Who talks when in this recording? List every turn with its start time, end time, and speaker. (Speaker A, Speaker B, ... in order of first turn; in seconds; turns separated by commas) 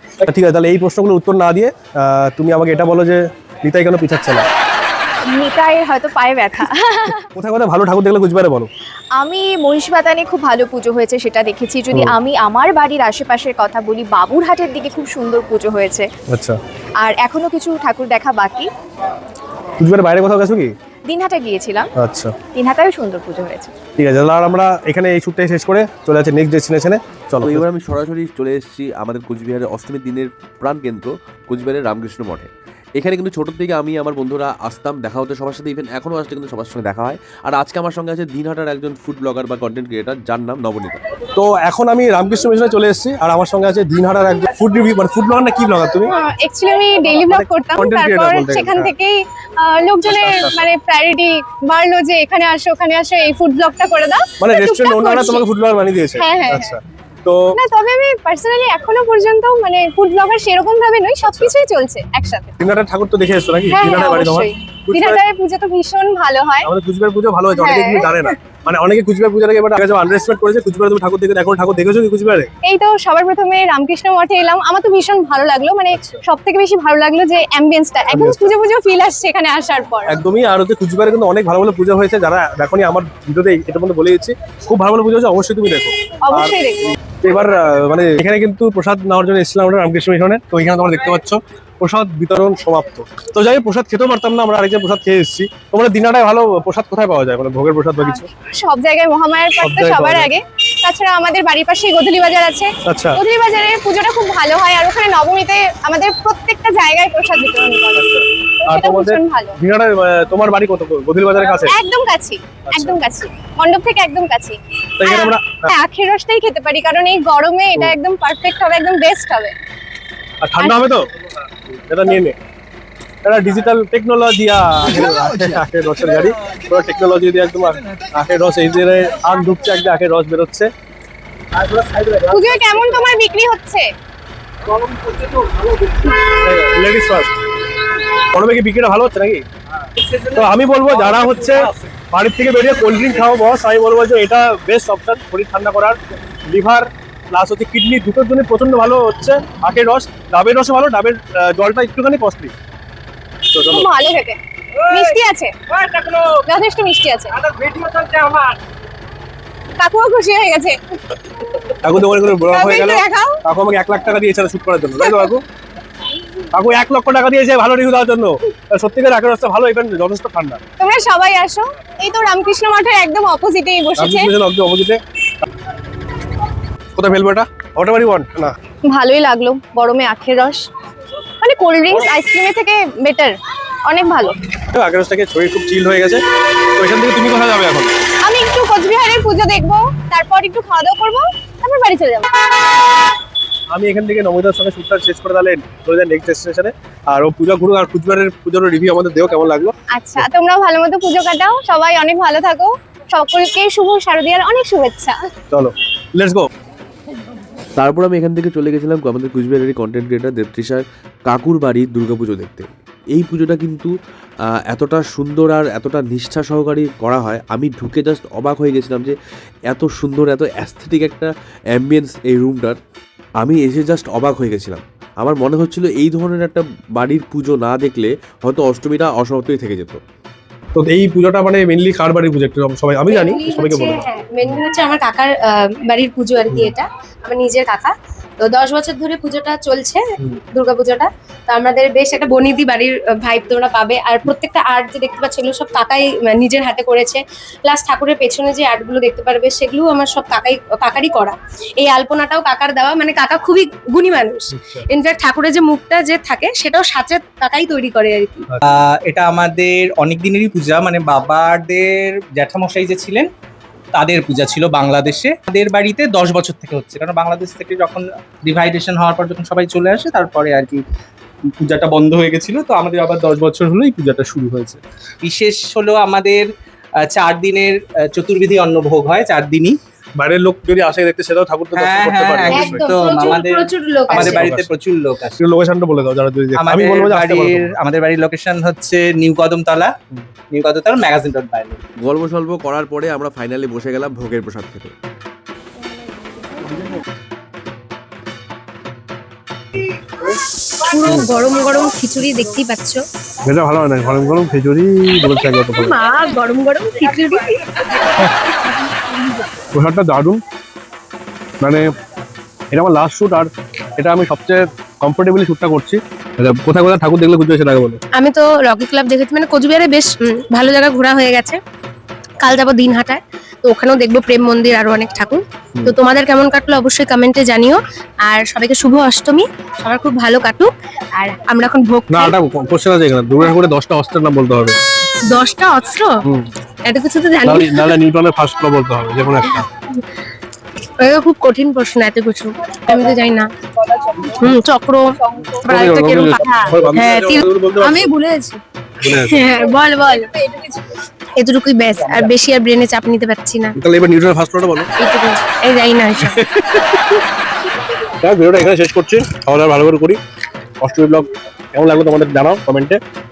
Speaker A: 0.2-4.4, Speaker B: 5.3-7.2, Speaker A: 7.3-8.7, Speaker B: 9.2-16.1, Speaker A: 16.3-16.6, Speaker B: 17.0-18.7, Speaker A: 19.8-20.7, Speaker B: 21.1-21.9, Speaker A: 21.9-22.3, Speaker B: 22.5-23.7, Speaker A: 24.0-27.6, Speaker C: 27.4-41.0, Speaker A: 41.3-46.1, Speaker D: 46.1-55.4, Speaker A: 47.2-48.9, Speaker A: 50.0-50.6, Speaker A: 54.4-57.5, Speaker D: 56.2-56.8, Speaker D: 57.5-62.6, Speaker A: 61.2-61.5, Speaker A: 62.6-65.2, Speaker D: 63.7-66.7, Speaker A: 66.6-72.5, Speaker D: 67.5-68.3, Speaker D: 72.6-80.1, Speaker A: 75.9-76.2, Speaker A: 78.1-78.5, Speaker A: 80.1-86.5, Speaker D: 86.2-86.9, Speaker A: 87.2-98.3, Speaker D: 98.0-108.1, Speaker A: 99.6-100.3, Speaker A: 102.8-103.2, Speaker A: 108.0-111.8, Speaker D: 108.6-109.5, Speaker D: 111.5-119.5, Speaker A: 112.7-113.0, Speaker A: 115.0-115.7, Speaker A: 120.4-121.1, Speaker A: 121.7-122.3, Speaker A: 123.2-130.7, Speaker A: 131.6-132.3, Speaker D: 132.3-133.8, Speaker A: 135.0-135.5, Speaker A: 136.0-137.3, Speaker A: 138.3-139.4, Speaker A: 140.2-152.5, Speaker A: 153.5-153.9, Speaker D: 153.6-155.5, Speaker A: 155.7-156.4, Speaker D: 156.4-157.3, Speaker A: 157.4-158.6, Speaker D: 159.8-160.8, Speaker A: 161.8-165.4, Speaker D: 162.5-163.4, Speaker A: 166.5-170.6, Speaker D: 170.8-174.3, Speaker A: 174.0-175.0, Speaker A: 176.9-178.5, Speaker D: 178.9-180.7, Speaker D: 181.4-184.4, Speaker A: 184.7-186.2, Speaker A: 186.8-187.9, Speaker D: 188.2-192.3, Speaker A: 193.7-200.2, Speaker D: 199.9-205.1, Speaker A: 205.5-206.5, Speaker C: 207.8-213.9, Speaker C: 214.7-219.2, Speaker C: 219.7-222.8, Speaker C: 223.4-230.0, Speaker A: 230.8-234.0, Speaker E: 233.1-240.0, Speaker E: 240.5-258.5, Speaker A: 254.5-254.8, Speaker F: 258.6-263.3, Speaker F: 263.9-270.8, Speaker F: 271.6-276.5, Speaker F: 277.0-279.8, Speaker A: 280.2-282.9, Speaker F: 281.8-285.4, Speaker E: 282.5-284.5, Speaker A: 284.2-284.7, Speaker A: 285.4-287.7, Speaker F: 286.6-289.9, Speaker F: 290.5-291.8, Speaker C: 292.0-294.9, Speaker E: 300.8-303.0, Speaker A: 303.4-306.0, Speaker E: 305.8-307.6, Speaker A: 309.7-310.4, Speaker A: 311.6-311.9, Speaker A: 312.7-318.0, Speaker E: 318.1-321.6, Speaker E: 322.4-332.3, Speaker A: 332.1-334.8, Speaker E: 335.3-336.1, Speaker E: 336.9-337.9, Speaker A: 337.4-339.6, Speaker E: 341.0-343.4, Speaker E: 344.3-345.1, Speaker D: 345.3-345.6, Speaker A: 345.7-348.1, Speaker E: 345.7-348.6, Speaker A: 349.0-349.5, Speaker E: 349.2-350.2, Speaker E: 351.4-353.7, Speaker A: 353.8-354.9, Speaker E: 355.0-356.4, Speaker A: 356.2-357.2, Speaker A: 358.2-360.2, Speaker A: 360.8-363.0